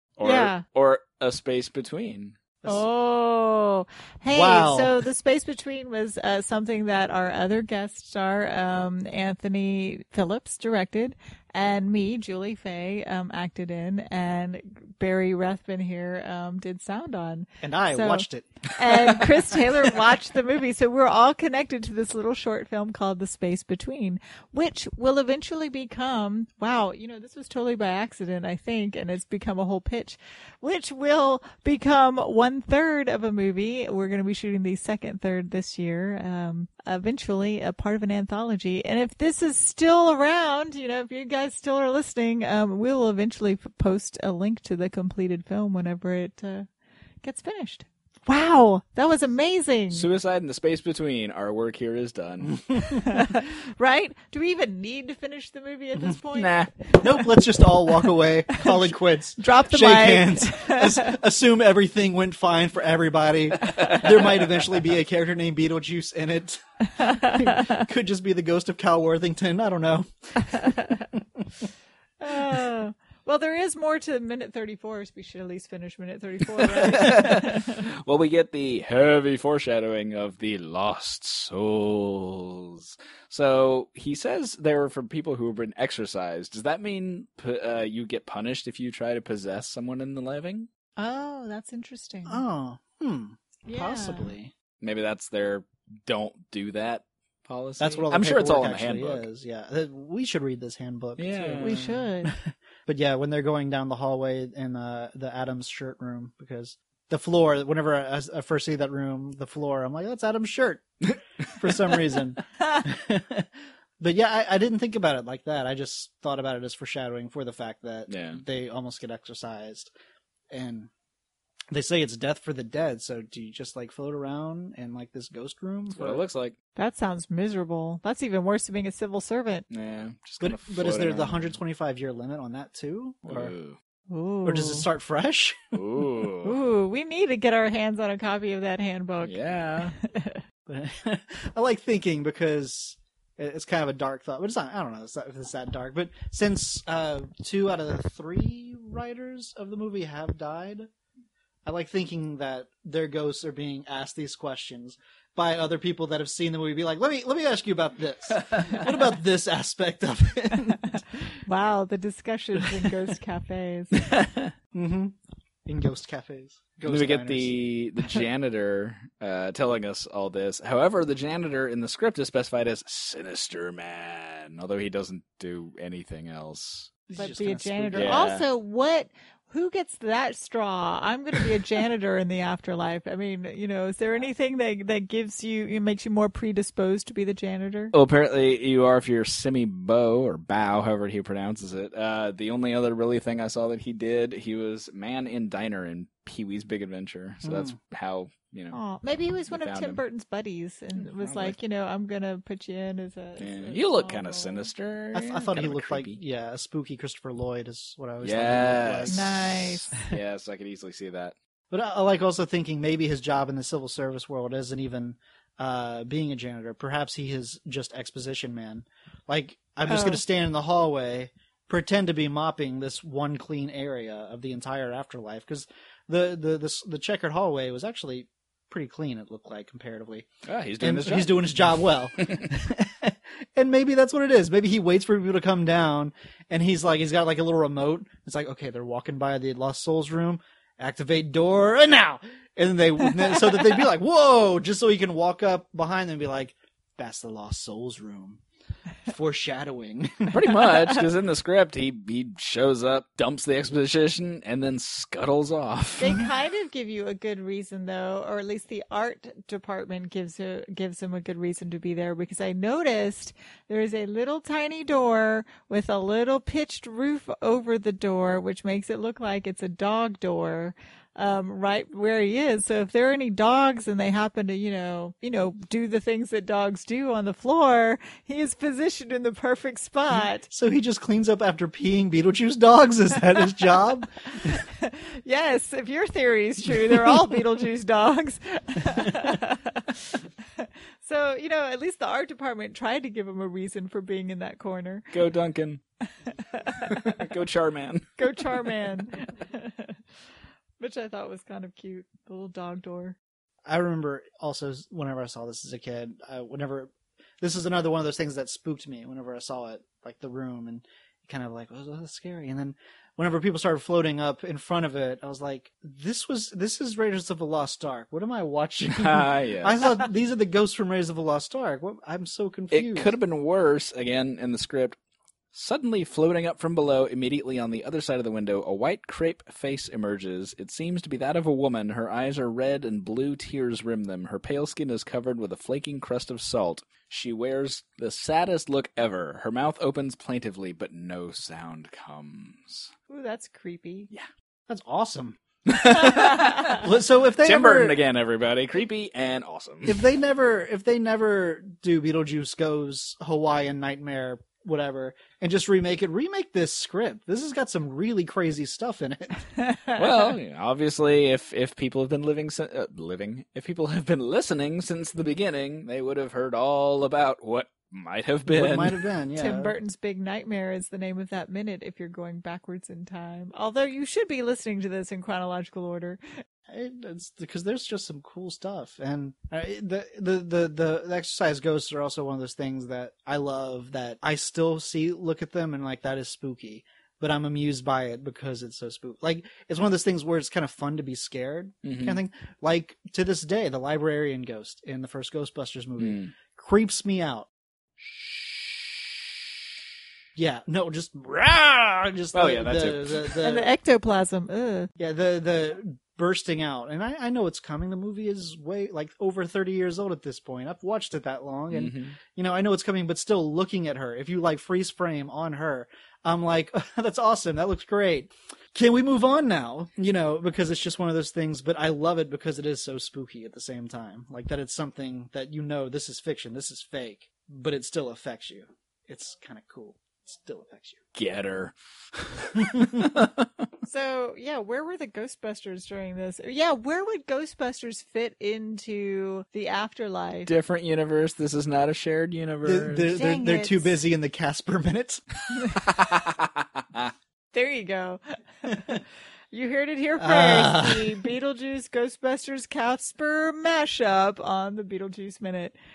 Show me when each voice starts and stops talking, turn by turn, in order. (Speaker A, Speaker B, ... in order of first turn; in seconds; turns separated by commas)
Speaker A: 0.2-2.4, Speaker B: 0.2-0.6, Speaker B: 2.6-46.7, Speaker C: 4.3-5.0, Speaker C: 17.6-18.6, Speaker B: 47.2-50.1, Speaker A: 49.9-52.6, Speaker C: 52.6-52.8, Speaker B: 52.7-57.3, Speaker A: 56.3-56.8, Speaker C: 57.0-71.4, Speaker B: 58.5-61.1, Speaker A: 63.6-64.6, Speaker B: 67.0-67.8, Speaker B: 70.4-71.0, Speaker B: 72.2-77.8, Speaker A: 76.7-90.7, Speaker B: 91.0-92.4, Speaker C: 92.2-94.5, Speaker B: 93.7-94.3, Speaker A: 94.8-99.2, Speaker C: 97.8-111.0, Speaker A: 101.2-101.8, Speaker B: 101.6-102.3, Speaker C: 111.5-113.5, Speaker A: 111.6-111.9, Speaker C: 114.0-119.9, Speaker A: 118.1-118.4, Speaker C: 120.5-120.9, Speaker C: 121.7-126.2, Speaker A: 125.9-126.5, Speaker B: 126.7-129.7, Speaker A: 129.7-131.6, Speaker C: 130.4-133.5, Speaker A: 133.2-133.8, Speaker B: 134.1-134.9, Speaker C: 134.4-135.7, Speaker A: 135.7-136.6, Speaker B: 136.4-140.4, Speaker A: 139.2-139.9, Speaker C: 140.7-150.9, Speaker C: 151.6-161.0, Speaker A: 158.4-159.1, Speaker B: 161.4-163.9, Speaker A: 164.1-164.5, Speaker C: 164.7-165.1, Speaker C: 165.7-167.6, Speaker A: 166.8-176.9, Speaker C: 177.1-178.2, Speaker B: 177.2-187.9, Speaker A: 177.9-178.4, Speaker A: 187.9-198.8, Speaker C: 197.4-197.7, Speaker B: 198.7-204.7, Speaker A: 199.4-200.0, Speaker C: 201.0-201.5, Speaker A: 203.4-206.2, Speaker C: 205.1-209.5, Speaker A: 208.2-211.3, Speaker B: 209.1-210.0, Speaker C: 211.7-230.3, Speaker B: 219.9-220.2, Speaker A: 230.5-231.6, Speaker C: 230.8-248.4, Speaker A: 232.2-232.5, Speaker C: 249.1-250.6, Speaker A: 250.3-256.2, Speaker B: 256.0-280.5, Speaker C: 280.1-284.6, Speaker B: 284.4-295.2, Speaker C: 287.0-287.2, Speaker A: 295.1-295.8, Speaker B: 296.2-297.2, Speaker A: 296.8-298.8, Speaker B: 298.2-300.0, Speaker B: 300.8-303.2, Speaker C: 303.6-323.1, Speaker A: 318.8-319.9, Speaker A: 322.7-325.0, Speaker A: 325.5-342.9, Speaker B: 343.1-344.1, Speaker C: 344.7-345.4, Speaker A: 345.7-346.9, Speaker C: 345.9-348.0, Speaker A: 347.4-350.0, Speaker C: 349.9-359.4, Speaker B: 359.6-359.9, Speaker A: 359.9-369.0, Speaker C: 368.5-369.8, Speaker B: 369.4-376.2, Speaker C: 376.7-397.5, Speaker A: 391.8-392.2, Speaker A: 396.0-396.3, Speaker A: 398.1-398.7, Speaker C: 400.4-403.7, Speaker A: 402.3-403.4, Speaker B: 403.4-404.9, Speaker C: 405.0-431.0, Speaker A: 411.7-412.2, Speaker A: 431.1-433.5, Speaker B: 433.8-440.5, Speaker A: 440.4-443.1, Speaker C: 442.6-445.2, Speaker B: 443.1-444.0, Speaker A: 445.7-447.1, Speaker B: 447.5-449.0, Speaker B: 449.5-455.8, Speaker C: 450.2-451.2